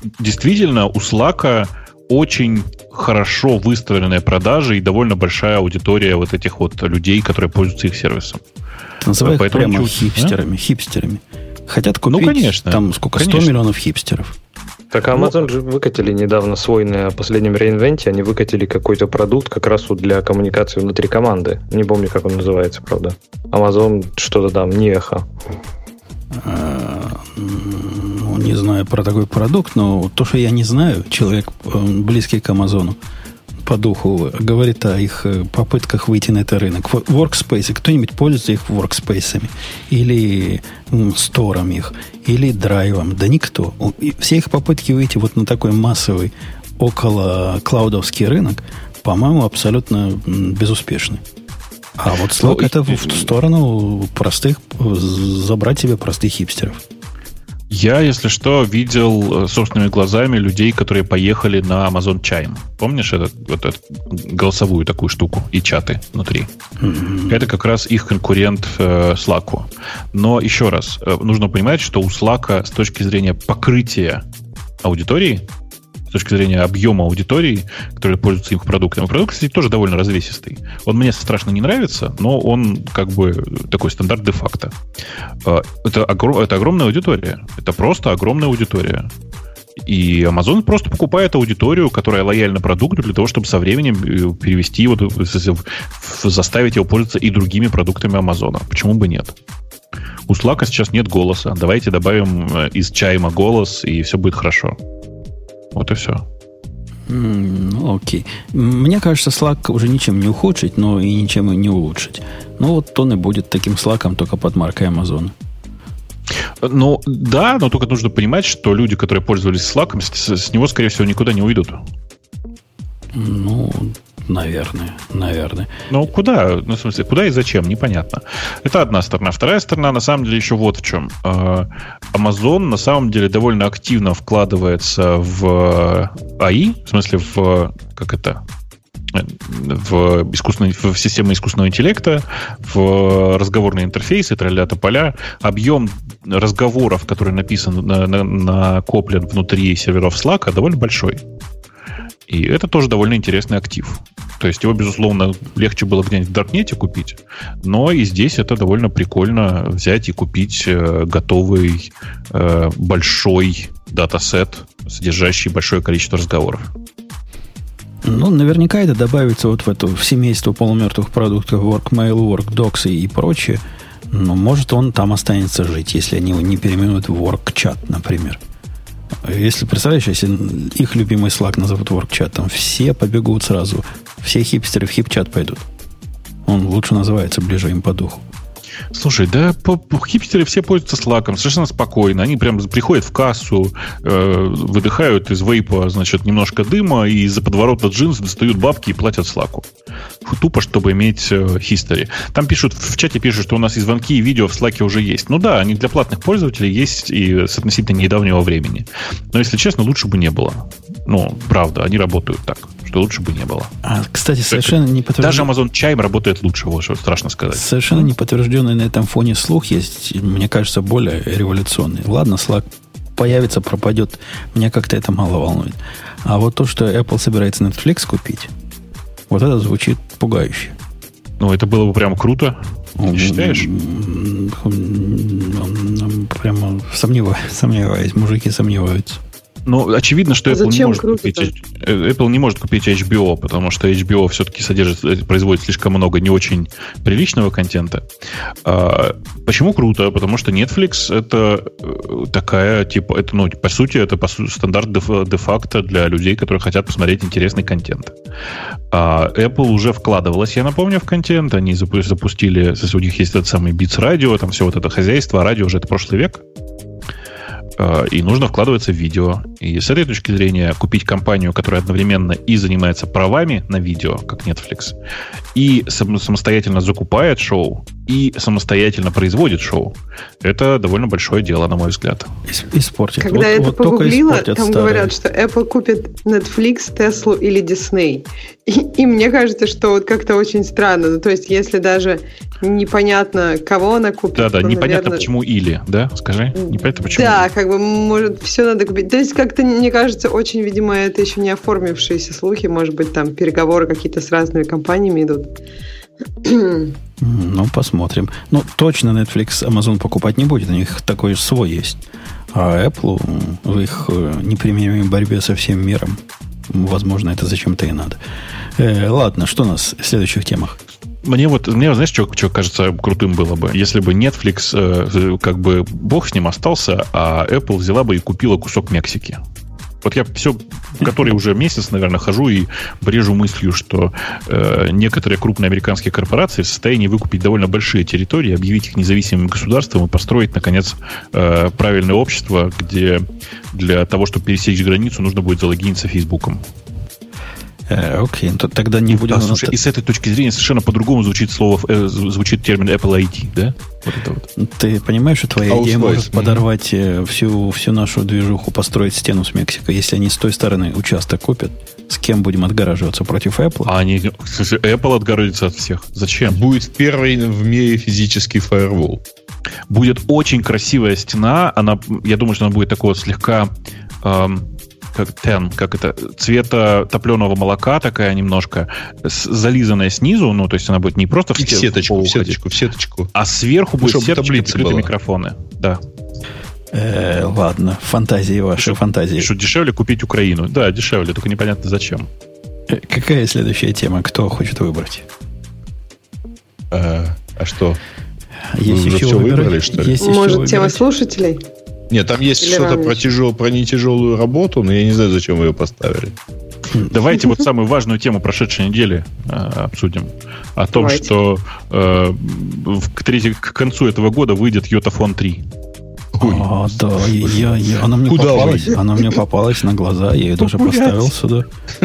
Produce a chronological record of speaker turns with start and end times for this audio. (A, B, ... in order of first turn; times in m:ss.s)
0:00.2-0:08.4 A
0:09.0-0:14.4 B
0:09.2-0:10.3 A
0:12.1-0:13.5 A
0:14.9-0:25.3 C
0:15.1-0:15.4 A
0:26.3-0:33.0 B
0:33.6-0:51.2 B
0:52.0-0:56.8 B
0:52.4-0:53.3 A
0:57.7-1:06.5 A
1:06.8-1:07.5 B
1:07.3-1:14.2 A
1:14.8-1:15.4 A
1:16.1-1:24.7 A
1:25.4-1:29.1 A
1:29.8-1:39.3 A
1:40.3-1:44.8 A
1:45.7-1:46.2 A
1:47.1-1:55.3 B
1:56.6-2:01.8 A
2:03.1-2:05.7 B
2:05.9-2:18.4 A
2:19.1-2:31.2 A
2:32.3-2:46.7 A
2:48.0-2:58.4 B
2:59.2-3:05.6 B
3:06.4-3:08.2 B
3:08.9-3:19.6 A
3:20.2-3:33.7 A
3:33.8-3:35.5 B
3:34.5-3:38.1 A
3:37.5-3:48.5 B
3:49.3-3:50.7 B
3:51.4-3:53.7 A
3:53.0-3:59.2 B
3:59.6-4:08.0 A
4:00.5-4:01.5 D
4:08.6-4:18.2 A
4:18.9-4:26.4 A
4:27.8-4:34.9 A
4:35.5-4:42.3 A
4:42.4-4:45.1 B
4:43.2-4:55.3 D
4:54.3-4:57.5 A
4:57.1-5:05.5 D
5:06.4-5:06.9 D
5:07.2-5:18.2 B
5:18.8-5:20.8 B
5:21.2-5:29.4 A
5:30.0-5:46.6 A
5:47.9-5:49.8 B
5:49.1-5:54.5 A
5:54.6-6:03.9 B
5:55.6-5:56.6 E
6:03.8-6:06.6 A
6:06.5-6:09.2 E
6:09.9-6:22.6 A
6:21.6-6:23.3 E
6:23.3-6:26.0 A
6:24.0-6:25.1 E
6:26.9-6:29.5 B
6:28.8-6:32.3 A
6:32.9-6:35.2 B
6:36.9-6:38.0 E
6:38.7-6:41.0 B
6:38.8-6:40.2 E
6:40.2-6:41.6 D
6:42.1-6:46.3 E
6:42.6-6:43.2 D
6:47.1-6:55.6 A
6:50.9-6:51.3 D
6:56.3-6:57.7 E
6:56.4-7:01.7 B
6:58.2-6:59.4 E
7:00.6-7:01.3 A